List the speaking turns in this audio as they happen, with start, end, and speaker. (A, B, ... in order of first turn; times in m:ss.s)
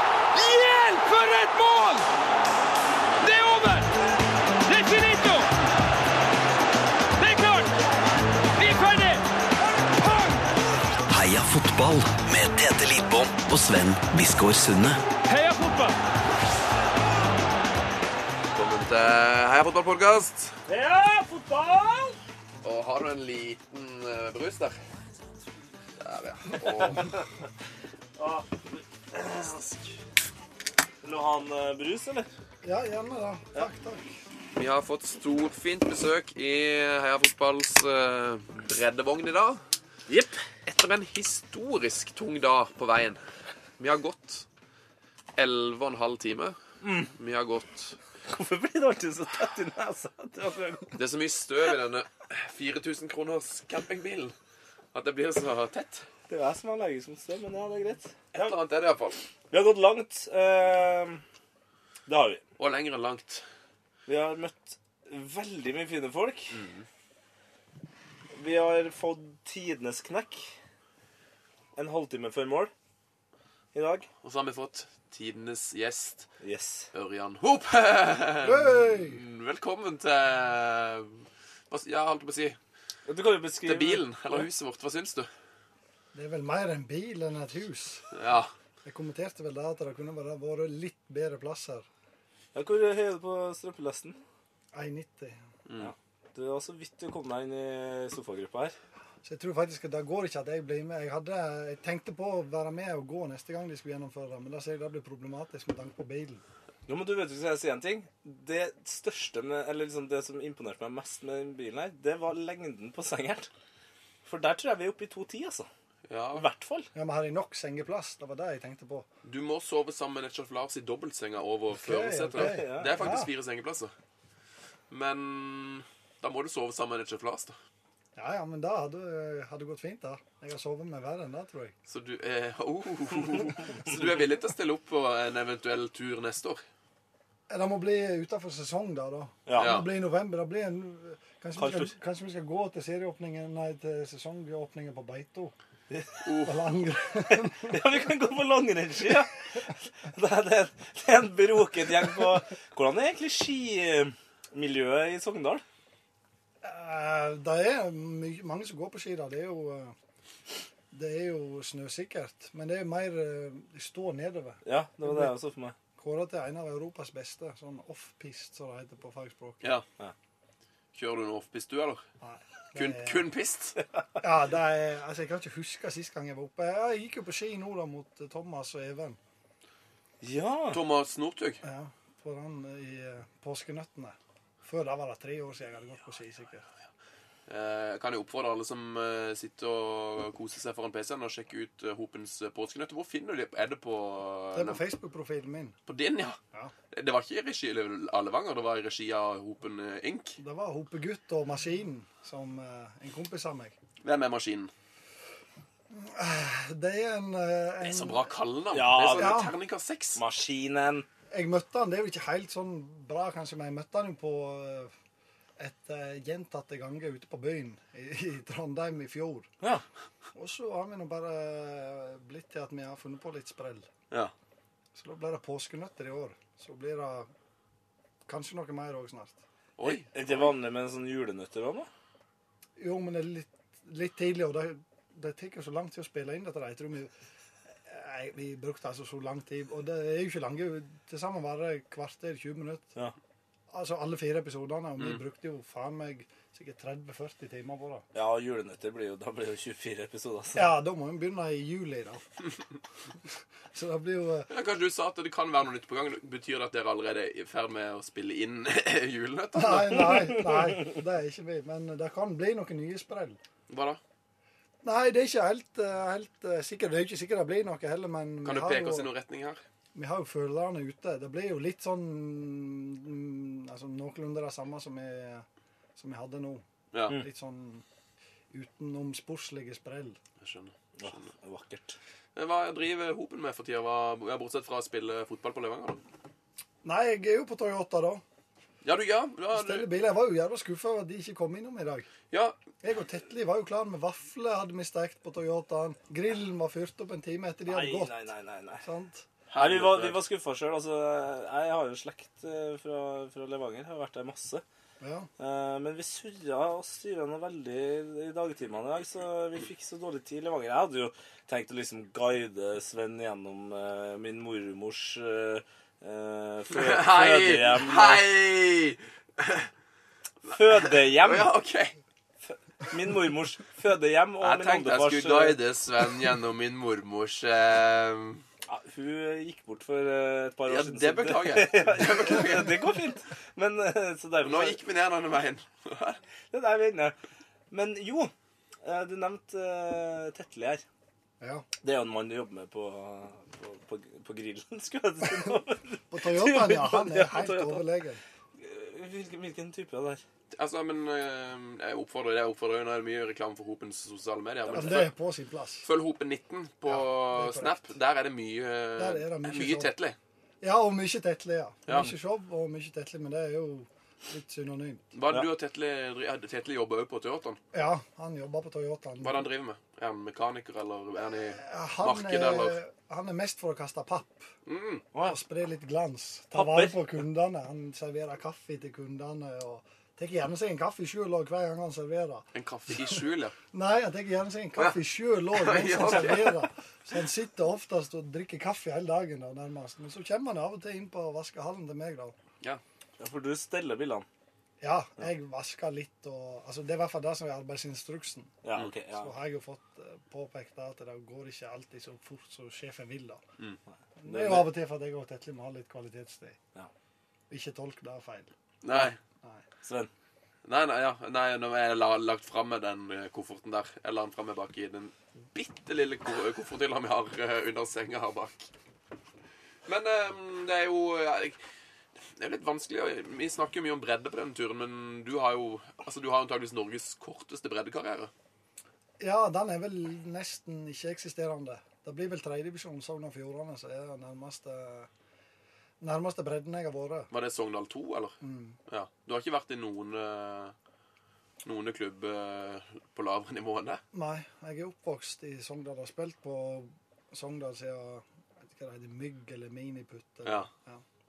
0:00.3-0:02.0 A
0:03.2-0:04.0 A
0:04.6-0:05.5 A
0:07.2-0:07.7 A
0:08.6-0:09.2 A
0:09.8-0:10.4 A
0:11.1-0:15.0 B
0:15.3-0:16.0 A
0:18.5-0:20.6 C
0:20.7-0:22.2 D
0:22.6-0:24.8 C
0:26.0-0:27.2 C
0:26.9-0:27.2 D
0:28.2-0:28.6 D
0:29.1-0:29.6 D
0:29.3-0:29.9 C
0:31.0-0:32.3 D
0:32.6-0:34.2 E
0:34.5-0:39.6 C
0:40.1-0:40.4 D
0:40.6-0:43.2 C
0:43.8-0:44.5 C
0:45.4-0:46.6 C
0:46.8-0:47.1 D
0:47.1-0:48.0 C
0:48.3-0:51.0 D
0:50.9-0:54.3 C
0:54.9-0:56.0 C
0:56.3-0:58.5 D
0:58.3-0:59.2 C
0:59.5-1:01.2 D
1:02.1-1:02.4 D
1:02.6-1:03.4 C
1:04.1-1:06.6 D
1:06.5-1:06.8 C
1:08.3-1:10.5 D
1:11.7-1:12.7 D
1:13.7-1:14.1 D
1:14.2-1:16.3 C
1:16.4-1:16.9 D
1:16.9-1:22.6 C
1:18.4-1:19.2 E
1:23.1-1:24.4 D
1:23.6-1:25.3 C
1:26.1-1:28.1 E
1:28.1-1:28.5 C
1:28.8-1:31.8 E
1:32.5-1:34.2 D
1:34.7-1:35.4 E
1:35.7-1:35.9 C
1:35.8-1:38.8 D
1:39.2-1:46.4 E
1:46.9-1:53.5 D
1:54.2-1:55.7 D
1:56.1-1:56.5 C
1:56.4-1:56.9 D
1:56.9-1:59.1 E
1:59.2-2:03.9 C
2:01.7-2:03.3 E
2:02.3-2:03.1 D
2:04.9-2:07.6 C
2:08.1-2:11.7 E
2:11.8-2:16.6 C
2:17.5-2:25.5 E
2:19.4-2:19.8 D
2:19.5-2:19.9 C
2:21.6-2:21.9 D
2:25.9-2:26.3 D
2:26.2-2:26.6 C
2:26.4-2:27.8 E
2:27.6-2:35.6 D
2:36.6-2:39.9 E
2:40.9-2:45.3 E
2:44.6-2:45.8 D
2:46.0-2:49.6 E
2:50.9-2:52.0 C
2:52.2-2:53.2 E
2:52.7-2:53.8 C
2:54.2-2:59.2 E
3:00.2-3:00.8 D
3:00.7-3:01.6 C
3:01.6-3:06.6 E
3:07.5-3:14.8 C
3:14.5-3:15.7 E
3:15.9-3:16.4 C
3:16.9-3:20.4 C
3:20.4-3:23.8 E
3:24.0-3:24.7 C
3:25.9-3:28.3 E
3:27.8-3:30.2 C
3:28.7-3:29.4 D
3:29.1-3:29.5 E
3:30.2-3:31.0 D
3:31.3-3:34.9 E
3:35.6-3:39.5 E
3:40.3-3:43.9 E
3:44.9-3:47.3 E
3:48.2-3:49.4 E
3:49.8-3:50.0 C
3:49.8-3:51.9 D
3:52.8-3:57.1 E
3:57.8-4:02.9 E
4:03.7-4:08.0 E
4:08.1-4:10.7 D
4:10.5-4:12.2 E
4:13.7-4:14.5 E
4:14.5-4:20.4 C
4:19.5-4:23.4 E
4:20.3-4:20.6 D
4:23.7-4:24.0 C
4:24.8-4:29.1 E
4:28.4-4:29.6 C
4:29.9-4:35.4 E
4:36.0-4:37.8 E
4:36.9-4:37.2 C
4:38.5-4:40.2 E
4:40.4-4:41.3 C
4:41.0-4:42.0 D
4:42.4-4:46.0 C
4:46.8-4:48.2 E
4:48.8-4:49.9 C
4:49.5-4:52.1 E
4:52.3-4:52.6 C
4:52.8-4:58.2 E
4:57.7-4:58.8 D
4:58.8-4:59.3 E
4:59.5-5:00.2 C
4:59.6-5:04.6 D
5:05.0-5:05.3 E
5:05.4-5:18.2 D
5:16.7-5:19.7 C
5:20.5-5:21.5 D
5:20.5-5:22.0 C
5:22.5-5:25.6 D
5:24.4-5:28.4 C
5:28.7-5:34.8 D
5:30.7-5:32.8 C
5:34.4-5:36.2 C
5:36.5-5:37.1 D
5:37.7-5:38.3 D
5:38.8-5:40.8 D
5:41.4-5:41.6 E
5:41.8-5:47.8 D
5:46.1-5:48.2 E
5:48.6-5:50.2 D
5:50.5-5:55.1 C
5:54.7-5:55.9 E
5:55.8-6:00.2 C
5:56.9-5:57.8 E
5:59.0-5:59.9 E
6:00.6-6:05.0 E
6:05.1-6:07.6 C
6:07.7-6:09.4 E
6:09.2-6:12.8 C
6:11.5-6:14.5 E
6:14.6-6:15.0 C
6:15.2-6:23.2 E
6:16.5-6:17.0 D
6:22.5-6:23.5 C
6:23.7-6:32.4 E
6:25.5-6:26.7 C
6:33.2-6:34.2 D
6:34.8-6:43.4 E
6:38.6-6:39.3 D
6:44.2-6:46.6 E
6:44.2-6:44.7 D
6:47.5-6:49.6 E
6:48.8-6:49.2 C
6:49.8-6:50.1 D
6:50.6-6:58.7 C
6:59.8-7:01.6 C
7:02.4-7:08.3 C
7:09.2-7:15.1 E
7:16.0-7:17.3 E
7:17.3-7:18.4 C
7:18.4-7:18.8 E
7:18.9-7:20.7 C
7:21.6-7:24.0 C
7:24.1-7:31.0 E